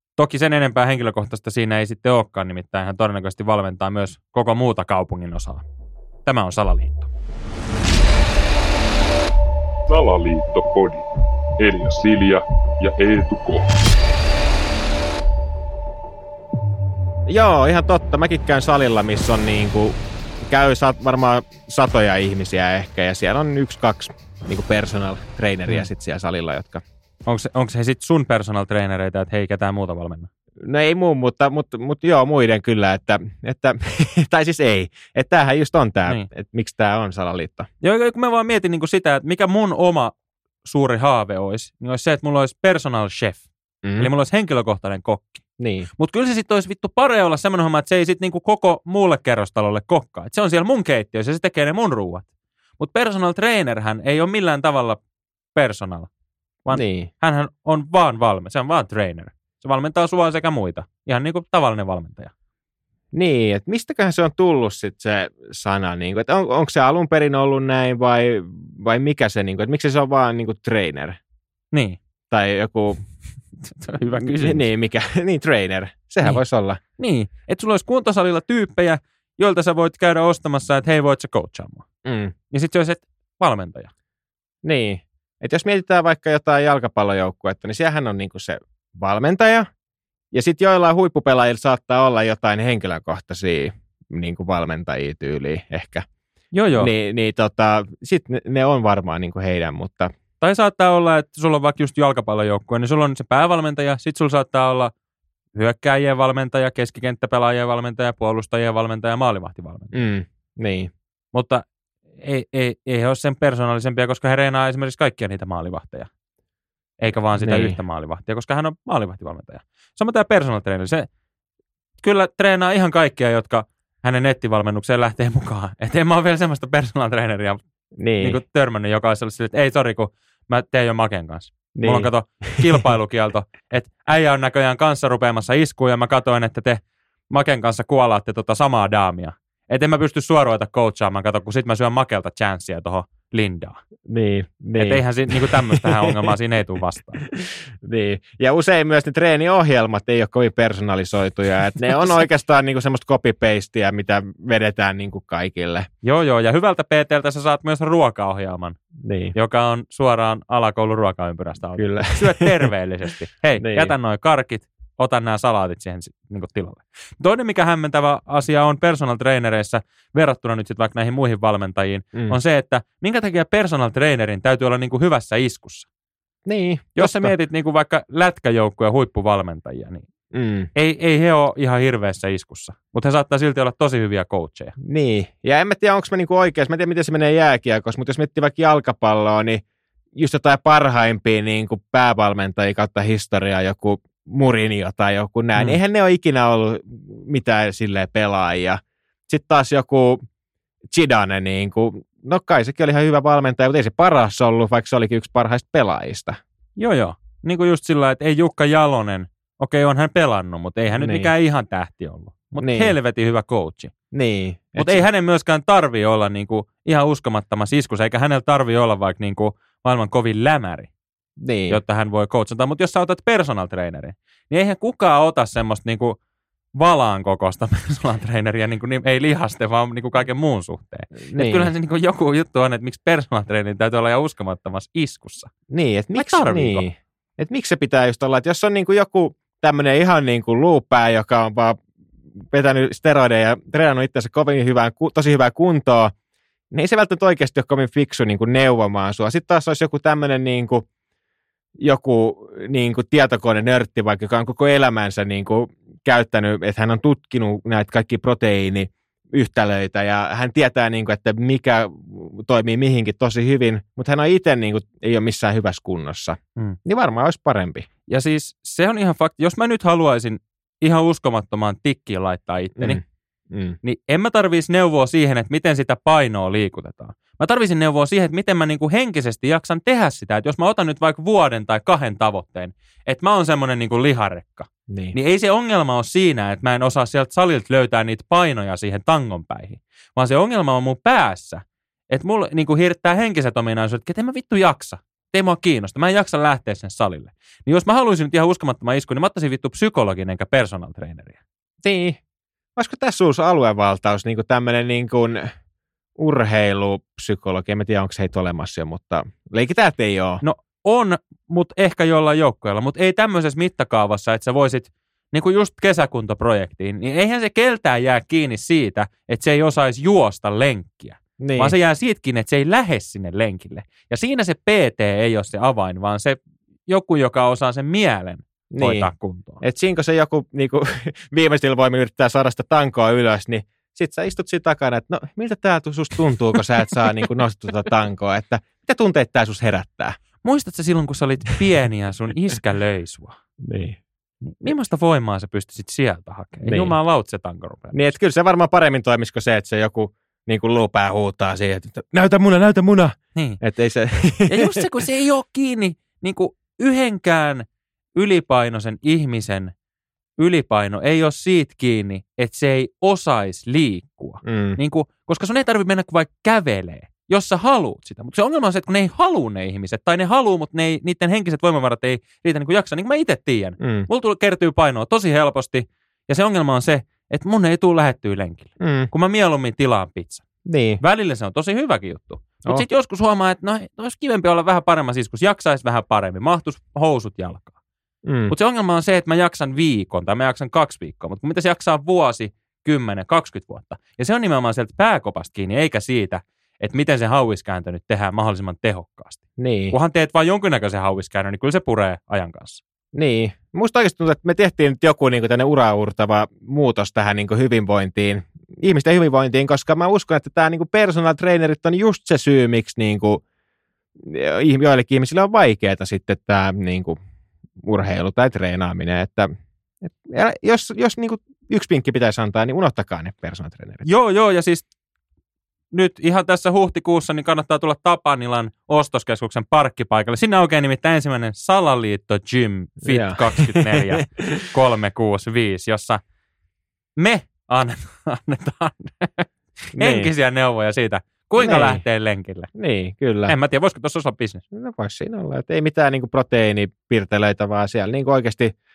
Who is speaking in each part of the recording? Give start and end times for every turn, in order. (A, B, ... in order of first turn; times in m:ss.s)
0:00.2-0:05.6 A
0:06.2-0:07.1 A
0:09.9-0:11.0 B
0:11.6-0:13.7 B
0:17.3-0:26.8 C
0:27.2-0:30.3 A
0:30.6-0:37.7 C
0:37.8-0:45.4 A
0:43.8-0:44.1 C
0:45.6-0:45.9 C
0:46.0-0:55.0 A
0:55.5-0:56.1 A
0:56.6-1:02.3 A
0:56.7-0:57.1 C
1:03.1-1:11.2 C
1:11.7-1:12.0 A
1:12.3-1:13.0 C
1:13.6-1:14.7 A
1:14.2-1:16.8 C
1:17.0-1:21.8 A
1:22.0-1:22.3 C
1:22.5-1:23.9 A
1:24.6-1:29.7 C
1:30.3-1:36.0 C
1:36.5-1:36.9 A
1:36.8-1:40.1 C
1:40.4-1:44.9 A
1:45.5-1:50.0 A
1:49.9-1:50.9 C
1:51.3-1:51.6 A
1:52.2-1:56.1 A
1:57.0-2:01.1 A
1:57.4-1:57.8 C
2:02.0-2:07.6 A
2:08.0-2:08.4 C
2:08.2-2:23.8 A
2:11.7-2:12.9 C
2:24.1-2:26.3 C
2:24.8-2:27.2 A
2:27.2-2:35.9 C
2:36.0-2:38.8 A
2:39.0-2:39.3 C
2:39.3-2:55.9 A
2:41.8-2:42.7 C
2:43.6-2:43.9 C
2:56.4-2:57.3 C
2:57.0-3:00.1 A
3:00.3-3:00.7 C
3:00.7-3:04.7 A
3:04.8-3:09.6 C
3:10.1-3:20.2 C
3:20.9-3:26.4 C
3:26.8-3:33.9 A
3:30.9-3:31.3 C
3:32.6-3:32.9 C
3:34.1-3:35.0 C
3:34.8-3:40.9 A
3:41.4-3:41.8 C
3:41.7-3:46.2 A
3:46.8-3:55.5 A
3:51.2-3:51.7 C
3:55.7-4:01.8 C
3:56.1-3:56.9 A
4:02.4-4:06.1 C
4:06.7-4:10.8 C
4:11.8-4:27.9 C
4:28.1-4:33.0 A
4:32.8-4:33.8 C
4:33.8-5:01.4 A
4:44.9-4:45.2 C
5:01.8-5:02.2 C
5:02.8-5:05.4 C
5:06.2-5:10.4 C
5:10.4-5:29.6 A
5:21.4-5:21.7 C
5:28.7-5:29.1 C
5:29.6-5:40.2 C
5:40.4-5:43.4 A
5:43.6-5:44.0 C
5:44.4-5:48.1 A
5:46.6-5:47.0 C
5:47.9-5:54.8 C
5:53.3-5:53.6 A
5:54.5-5:57.6 A
5:58.2-5:59.7 A
6:00.4-6:20.4 A
6:04.4-6:04.8 C
6:13.8-6:14.1 C
6:18.8-6:19.1 C
6:20.6-6:21.0 C
6:21.0-6:27.7 A
6:28.2-6:28.5 C
6:28.5-6:42.8 A
6:39.6-6:40.0 C
6:43.1-6:53.4 C
6:54.2-6:57.2 C
6:57.8-6:59.5 C
7:00.0-7:04.0 C
7:04.0-7:04.9 A
7:05.9-7:16.2 A
7:13.0-7:14.6 C
7:17.2-7:22.7 A
7:20.0-7:20.3 C
7:21.6-7:22.0 C
7:22.8-7:23.6 C
7:23.5-7:24.6 A
7:24.7-7:28.7 C